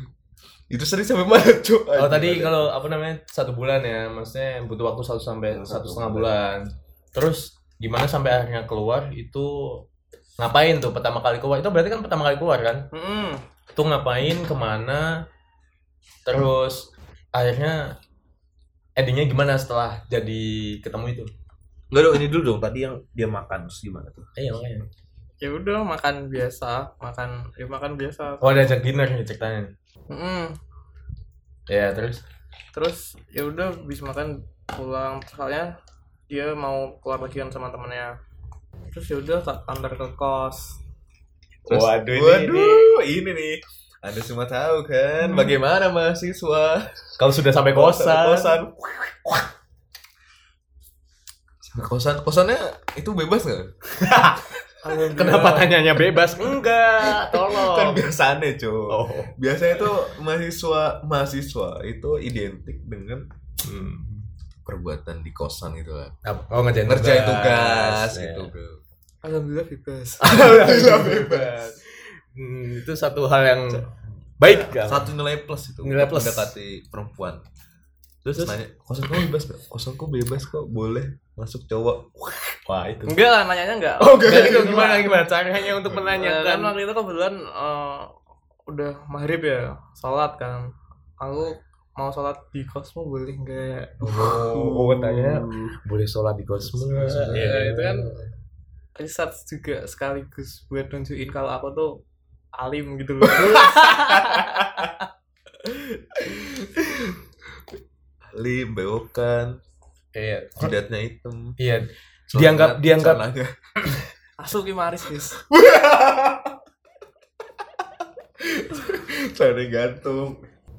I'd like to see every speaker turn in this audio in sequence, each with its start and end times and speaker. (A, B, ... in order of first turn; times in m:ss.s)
0:00.7-0:02.7 A
0:02.0-0:09.8 B
0:05.5-0:06.3 A
0:10.4-0:12.8 B
0:12.9-0:13.4 C
0:13.7-0:15.1 B
0:16.2-0:17.9 B
0:19.0-0:21.3 B
0:21.9-0:24.3 A
0:24.4-0:24.9 B
0:25.4-0:28.7 C
0:28.4-0:29.7 B
0:30.1-0:30.5 C
0:31.7-0:32.2 B
0:32.7-0:35.7 C
0:36.3-0:38.1 C
0:38.9-0:40.8 C
0:41.6-0:47.1 A
0:41.7-0:42.9 B
0:45.2-0:45.6 B
0:47.2-0:48.6 B
0:47.7-0:49.5 A
0:51.6-0:54.3 A
0:54.0-0:54.5 B
0:54.8-0:55.9 C
0:55.1-0:58.0 B
0:57.0-1:03.2 A
0:58.9-0:59.3 B
1:03.6-1:04.1 B
1:04.6-1:06.2 A
1:06.2-1:08.5 B
1:06.9-1:08.8 A
1:09.2-1:10.3 C
1:10.2-1:13.8 B
1:10.2-1:11.6 A
1:13.7-1:17.4 A
1:14.4-1:15.1 B
1:15.8-1:16.5 B
1:18.2-1:18.6 B
1:18.3-1:22.6 A
1:22.7-1:23.2 B
1:23.1-1:25.0 C
1:24.0-1:25.0 A
1:24.1-1:26.7 B
1:26.1-1:28.1 C
1:28.7-1:30.7 C
1:31.2-1:34.3 C
1:34.0-1:35.7 A
1:34.0-1:38.2 B
1:36.8-1:37.5 A
1:37.3-1:38.2 C
1:39.0-1:41.9 C
1:42.6-1:44.9 C
1:43.3-1:44.8 A
1:45.6-1:47.2 A
1:48.3-1:49.5 A
1:50.1-1:50.7 B
1:50.6-1:51.6 A
1:51.6-1:53.2 B
1:52.3-1:54.1 A
1:54.4-1:55.4 C
1:55.4-1:56.6 A
1:58.4-2:00.4 A